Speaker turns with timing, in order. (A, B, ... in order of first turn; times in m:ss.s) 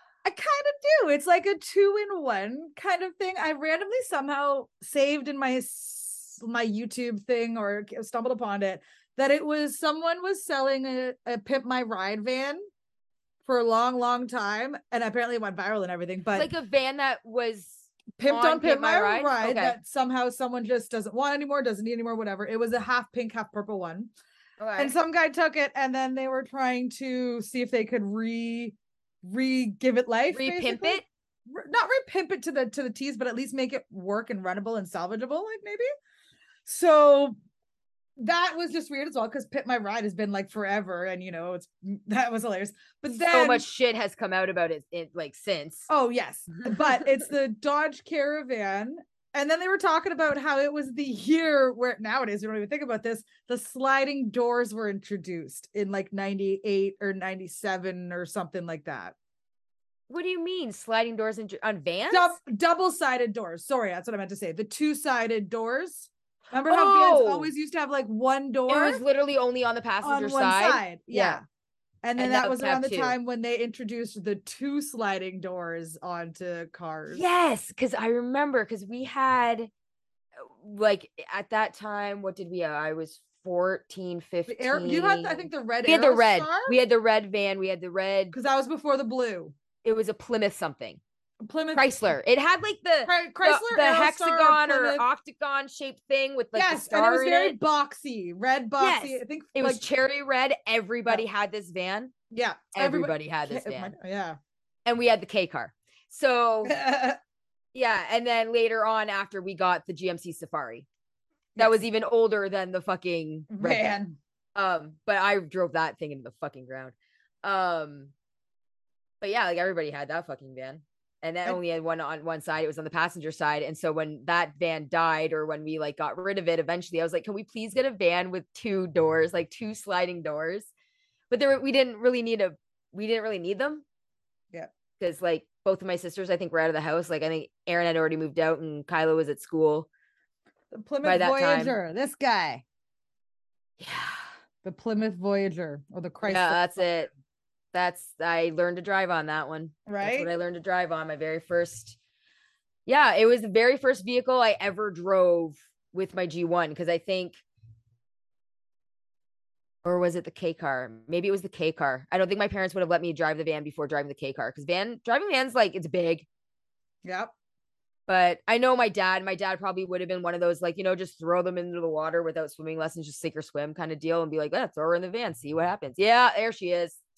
0:00.2-0:12.6 A
0:13.4-0:16.5 A
0:16.3-0:19.8 B
0:18.2-0:24.1 A
0:24.6-0:24.9 B
0:24.8-0:35.9 A
0:30.3-0:31.0 B
0:36.6-0:37.4 A
0:38.2-0:43.7 A
0:43.2-0:45.9 B
0:45.9-0:59.1 A
1:00.1-1:02.4 B
1:02.1-1:09.0 A
1:06.6-1:07.5 B
1:08.7-1:11.4 B
1:10.0-1:11.4 A
1:12.0-1:17.2 A
1:12.2-1:13.2 B
1:17.1-1:19.7 B
1:20.4-1:28.4 B
1:24.5-1:26.8 A
1:28.3-1:29.6 A
1:29.8-1:31.0 B
1:31.4-1:32.1 A
1:31.7-1:37.6 B
1:33.0-1:35.0 A
1:36.5-1:39.8 A
1:38.8-1:42.1 B
1:42.3-1:44.4 A
1:42.8-1:43.9 B
1:44.9-1:46.8 B
1:46.6-1:47.2 A
1:47.7-1:50.9 B
1:51.6-1:54.0 B
1:53.5-1:54.2 A
1:54.6-1:58.1 B
1:59.2-2:10.7 B
2:11.3-2:13.8 B
2:15.0-2:19.9 B
2:20.7-2:22.6 A
2:21.0-2:21.8 B
2:23.8-2:24.2 B
2:24.6-2:26.8 A
2:26.2-2:27.1 B
2:27.7-2:32.0 B
2:29.9-2:30.3 A
2:32.9-2:37.4 B
2:39.8-2:46.2 B
2:47.0-2:47.3 A
2:48.1-2:57.0 B